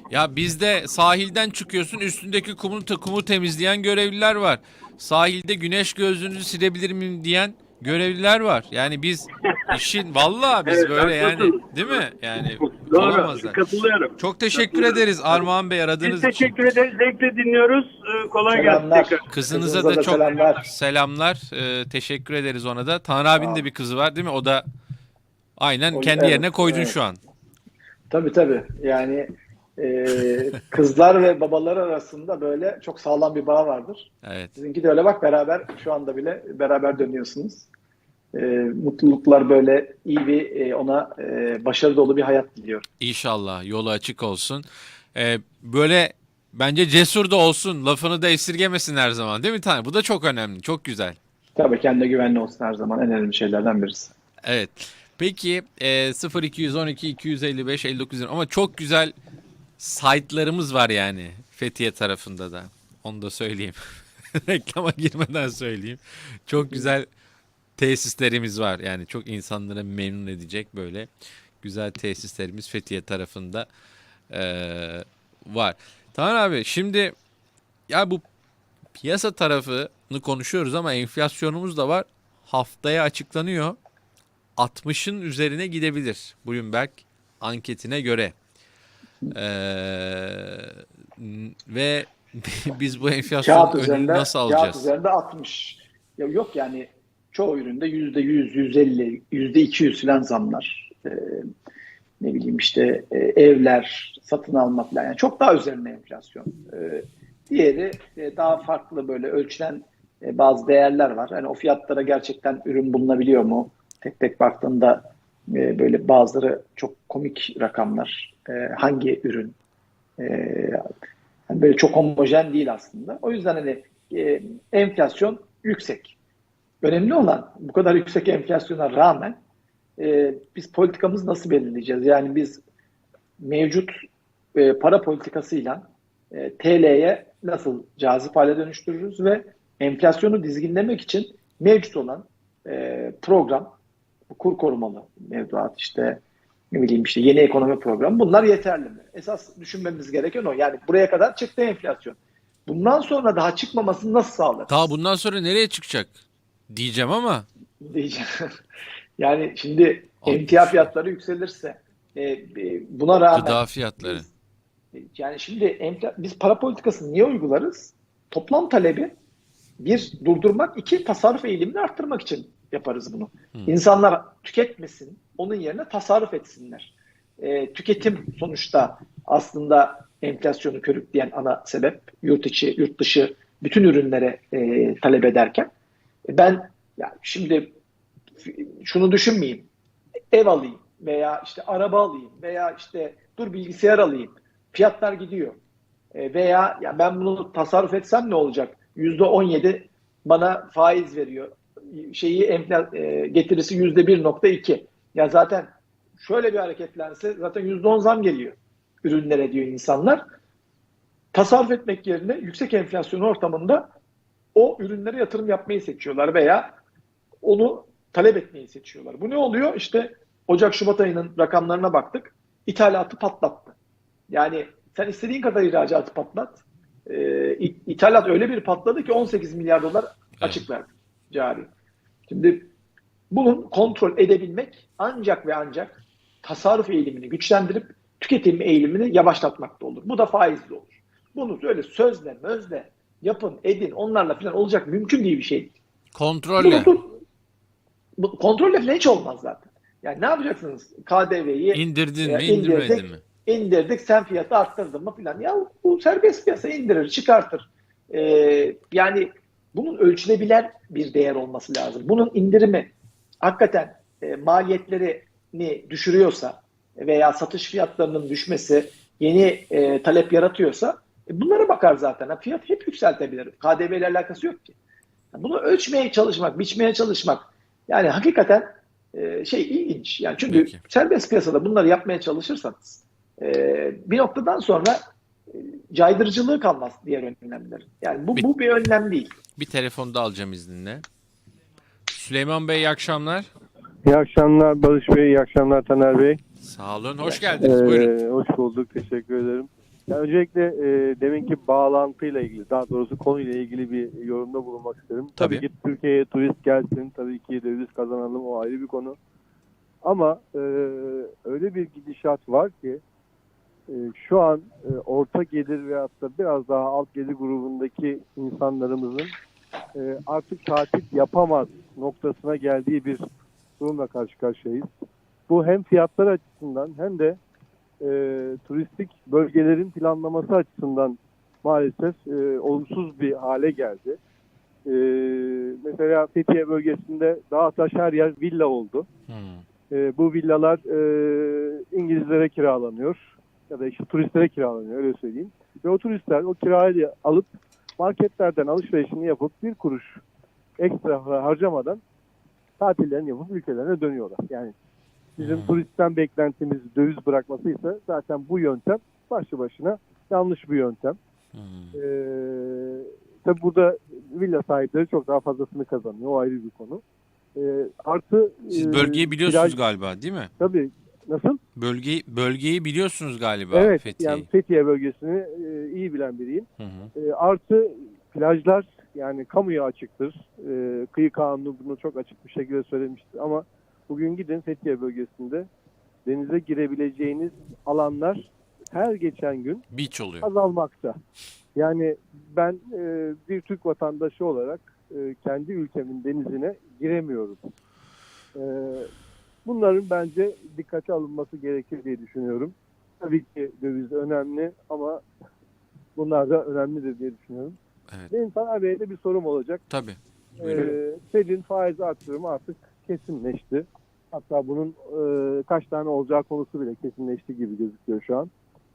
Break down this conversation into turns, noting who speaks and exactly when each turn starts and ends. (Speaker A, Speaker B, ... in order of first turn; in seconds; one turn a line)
Speaker A: 0.1-13.6
Speaker B: 10.7-12.0
Speaker B: 12.6-15.0
Speaker A: 14.2-16.5
Speaker B: 16.0-19.3
Speaker C: 18.5-20.6
Speaker A: 19.3-24.6
Speaker C: 23.3-23.7
Speaker A: 25.6-27.2
Speaker C: 25.9-27.0
Speaker C: 28.1-37.7
Speaker A: 34.2-34.5
Speaker C: 38.3-42.9
Speaker A: 43.0-51.2
Speaker C: 51.5-54.1
Speaker A: 54.4-59.1
Speaker A: 59.8-63.8
Speaker A: 64.3-67.1
Speaker C: 66.6-66.9
Speaker A: 67.8-71.1
Speaker A: 71.6-73.7
Speaker A: 74.3-77.1
Speaker A: 77.9-78.2
Speaker A: 79.0-83.8
Speaker A: 84.6-88.3
Speaker A: 89.3-94.9
Speaker C: 93.4-101.5
Speaker C: 102.2-119.5
Speaker C: 120.2-120.9
Speaker C: 121.5-126.2
Speaker C: 126.8-129.4
Speaker C: 130.0-132.6
Speaker C: 133.4-143.8
Speaker C: 144.3-154.9
Speaker A: 154.7-157.5
Speaker C: 157.8-158.5
Speaker C: 159.2-164.2
Speaker A: 160.2-160.9
Speaker A: 163.3-164.3
Speaker C: 164.9-169.1
Speaker C: 169.8-185.7
Speaker C: 186.3-187.8
Speaker C: 188.4-189.7
Speaker C: 190.3-195.6
Speaker C: 196.1-210.2
Speaker C: 211.3-213.9
Speaker C: 214.5-216.8
Speaker C: 217.4-223.7
Speaker C: 224.3-231.7
Speaker C: 232.3-232.7
Speaker C: 233.3-245.8
Speaker A: 246.1-246.9
Speaker C: 246.6-247.2
Speaker C: 248.2-274.8
Speaker A: 251.7-253.2
Speaker C: 275.3-285.0
Speaker A: 280.4-280.8
Speaker C: 285.5-289.4
Speaker A: 289.6-291.0
Speaker A: 292.1-293.5
Speaker D: 294.0-296.4
Speaker A: 296.6-298.1
Speaker D: 297.2-309.2
Speaker A: 305.4-305.6
Speaker D: 310.0-313.0
Speaker D: 313.9-319.3
Speaker D: 319.9-323.2
Speaker D: 323.8-324.9
Speaker D: 325.5-327.4
Speaker D: 328.0-334.2
Speaker D: 334.9-339.1
Speaker A: 339.3-339.6
Speaker D: 339.9-350.2
Speaker D: 350.8-352.0
Speaker D: 352.8-354.7
Speaker D: 355.4-361.2
Speaker A: 355.4-355.8
Speaker A: 361.5-361.9
Speaker D: 361.9-367.0
Speaker D: 367.6-369.8
Speaker A: 368.7-370.5
Speaker D: 370.6-371.6
Speaker A: 371.8-374.4
Speaker D: 373.7-385.7
Speaker A: 376.8-377.1
Speaker D: 386.2-389.8
Speaker A: 389.9-390.5
Speaker D: 390.4-391.2
Speaker D: 391.8-397.7
Speaker D: 398.6-399.1
Speaker D: 399.6-405.2
Speaker D: 406.1-407.8
Speaker D: 408.3-409.8
Speaker A: 409.9-410.9
Speaker D: 410.6-418.5